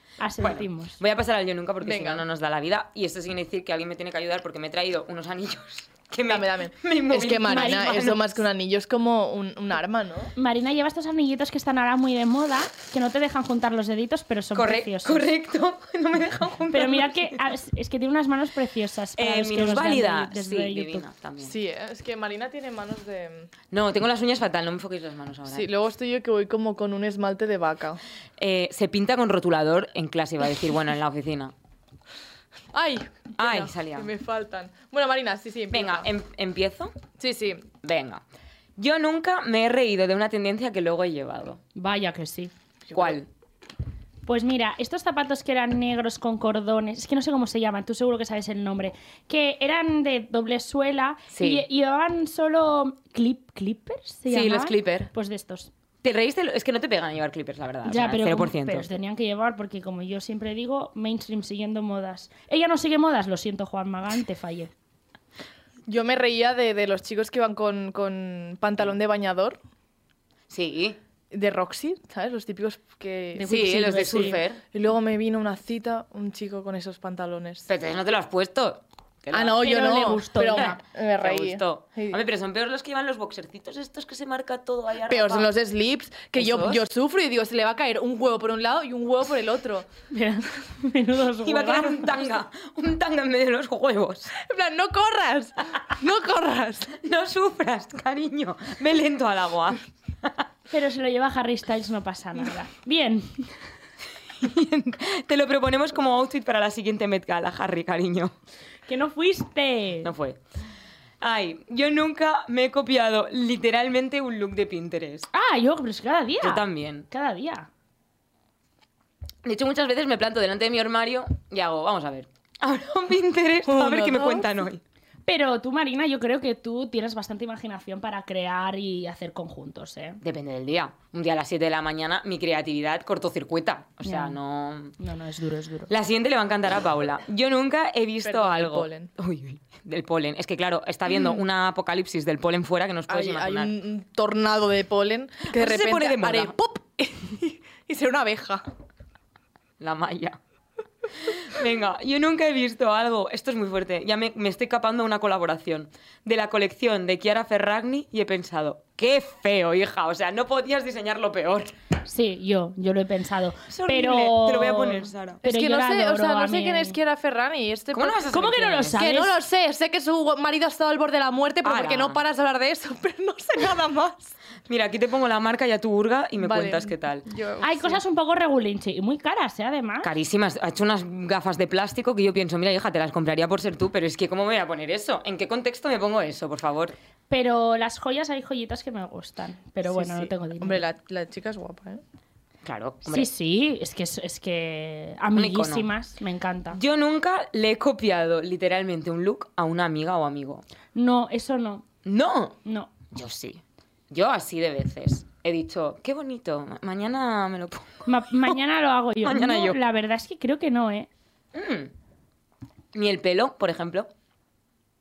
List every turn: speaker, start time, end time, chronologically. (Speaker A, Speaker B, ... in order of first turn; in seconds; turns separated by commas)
Speaker A: 0.2-1.0, Speaker B: 0.4-8.2, Speaker C: 1.8-2.2, Speaker C: 6.3-10.3, Speaker A: 7.5-8.2, Speaker A: 10.4-15.3, Speaker B: 14.5-17.4, Speaker A: 16.7-21.1, Speaker B: 19.2-21.5, Speaker C: 21.4-23.5, Speaker B: 23.7-25.7, Speaker C: 25.5-28.0, Speaker B: 28.4-31.5, Speaker C: 32.7-36.1, Speaker B: 33.4-34.1, Speaker B: 35.7-37.0, Speaker C: 37.2-37.6, Speaker B: 37.8-38.2, Speaker B: 38.8-41.6, Speaker A: 41.8-42.5, Speaker C: 42.9-43.2, Speaker B: 42.9-43.3, Speaker A: 44.3-55.7, Speaker B: 51.3-51.6, Speaker B: 54.3-55.1, Speaker B: 56.0-58.9, Speaker A: 57.9-64.7, Speaker C: 65.9-69.6, Speaker B: 70.5-71.0, Speaker C: 71.3-73.5, Speaker A: 73.4-74.4, Speaker B: 73.5-74.6, Speaker C: 74.7-77.7, Speaker B: 77.7-79.6, Speaker C: 79.3-82.2, Speaker A: 79.5-80.8, Speaker B: 80.6-85.5, Speaker C: 85.1-89.9, Speaker B: 86.3-86.8, Speaker A: 90.1-92.3, Speaker B: 91.4-94.3, Speaker C: 94.4-96.9, Speaker B: 96.9-100.5, Speaker A: 100.7-103.5, Speaker B: 104.4-108.3, Speaker A: 108.9-110.1, Speaker B: 110.0-110.4, Speaker B: 111.2-115.3, Speaker A: 115.3-117.7, Speaker B: 116.4-117.1, Speaker B: 119.4-124.8, Speaker C: 123.7-124.5, Speaker A: 125.3-130.2, Speaker B: 130.2-134.9, Speaker A: 134.0-134.4, Speaker A: 135.0-135.9, Speaker B: 135.9-143.7, Speaker C: 138.2-139.1, Speaker C: 143.1-148.6, Speaker B: 145.5-146.5, Speaker B: 149.8-150.4, Speaker B: 151.2-161.7, Speaker A: 162.0-167.0, Speaker B: 163.7-165.4, Speaker C: 165.4-168.3, Speaker B: 167.9-169.1, Speaker A: 168.3-169.3, Speaker C: 168.9-174.3, Speaker B: 171.6-172.2, Speaker B: 174.7-177.2, Speaker C: 176.4-178.0, Speaker A: 177.6-180.1, Speaker B: 180.0-186.9, Speaker A: 187.3-190.8, Speaker C: 189.9-192.0, Speaker B: 192.6-193.3, Speaker A: 193.1-196.8, Speaker B: 195.3-195.9, Speaker B: 196.7-200.6, Speaker A: 200.9-201.8, Speaker B: 202.1-202.6, Speaker A: 202.6-202.9, Speaker B: 203.1-208.6, Speaker A: 208.1-211.1, Speaker B: 209.2-209.8, Speaker B: 211.5-211.9, Speaker B: 212.9-214.1